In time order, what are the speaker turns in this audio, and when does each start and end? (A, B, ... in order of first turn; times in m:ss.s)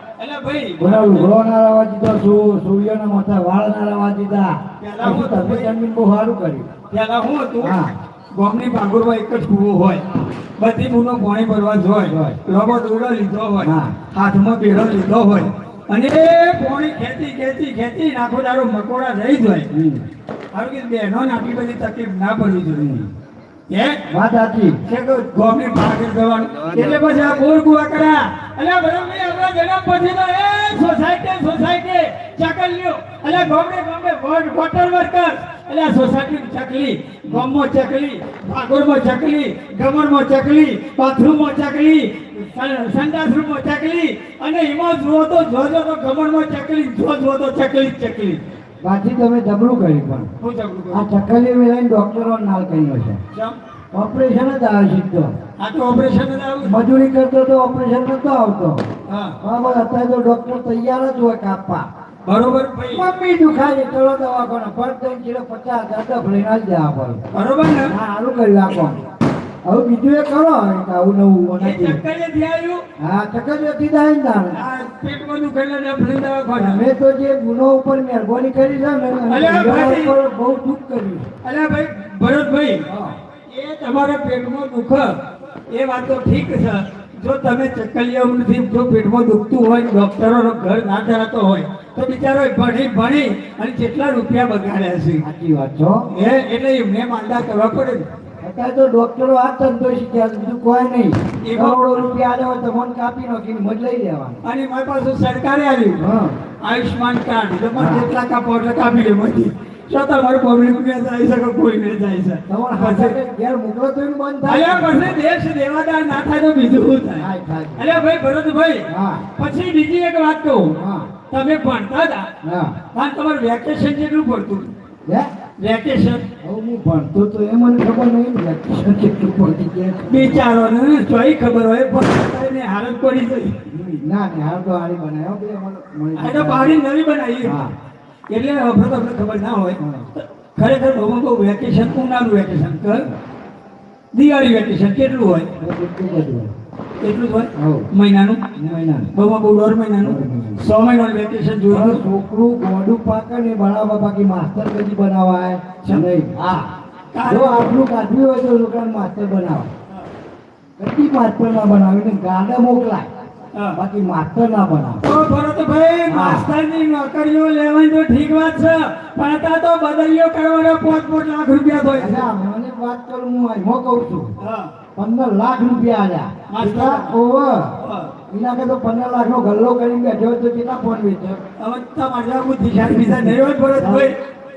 0:00.2-0:01.3 A
0:00.8-0:06.7 B
0:04.8-0:05.7 A
0:06.9-0:07.8 A
0:07.6-0:07.9 B
0:08.3-0:10.0 A
0:10.6-0:19.7 A
0:12.0-0:12.4 B
0:13.6-0:14.0 B
0:19.7-0:20.0 B
0:20.5-0:22.9 A
0:22.7-0:23.1 B
0:23.7-0:24.0 A
0:24.1-0:24.8 B
0:24.8-0:48.4 A
0:48.8-0:50.3 B
0:50.4-0:51.1 A
0:50.9-0:53.2 B
0:53.3-0:53.6 A
0:53.9-0:55.3 B
0:55.6-0:56.8 A
0:56.6-0:58.9 B
0:59.1-0:59.4 A
0:59.4-1:01.8 B
1:02.2-1:03.1 A
1:02.9-1:07.2 B
1:07.3-1:07.9 A
1:07.8-1:09.0 B
1:09.7-1:12.0 B
1:11.6-1:12.8 A
1:13.0-1:14.6 B
1:14.5-1:16.8 A
1:16.5-1:21.3 B
1:19.3-1:20.1 A
1:21.4-1:22.8 A
1:22.9-1:23.2 B
1:23.5-1:25.2 A
1:25.7-1:35.2 A
1:35.2-1:36.0 B
1:36.1-1:38.1 A
1:38.4-1:44.4 B
1:41.4-1:42.0 A
1:44.4-1:46.0 A
1:46.0-1:46.4 B
1:46.6-1:53.2 A
1:47.7-1:48.0 B
1:52.5-1:55.1 B
1:54.4-2:00.8 A
1:57.2-1:58.0 B
1:58.9-1:59.3 B
2:00.7-2:01.1 B
2:01.3-2:02.3 A
2:02.4-2:02.8 B
2:02.9-2:04.7 A
2:05.6-2:06.2 A
2:06.4-2:10.4 B
2:10.1-2:13.6 A
2:13.7-2:16.8 B
2:16.2-2:17.6 A
2:17.4-2:17.7 B
2:18.3-2:23.1 A
2:19.8-2:20.1 B
2:24.1-2:25.5 A
2:25.6-2:26.5 B
2:27.0-2:28.4 A
2:27.6-2:27.9 B
2:28.5-2:29.1 B
2:29.1-2:32.0 A
2:30.0-2:30.6 B
2:31.7-2:36.7 B
2:37.1-2:37.8 A
2:37.2-2:39.7 B
2:40.8-2:43.1 B
2:43.5-2:43.8 A
2:43.7-2:45.0 B
2:45.0-2:52.3 A
2:46.1-2:46.5 B
2:51.9-2:54.4 B
2:54.4-2:54.7 A
2:55.0-2:57.8 B
2:56.5-2:57.1 A
2:57.8-2:58.1 A
2:58.3-3:01.4 B
3:01.6-3:04.2 A
3:03.7-3:04.1 B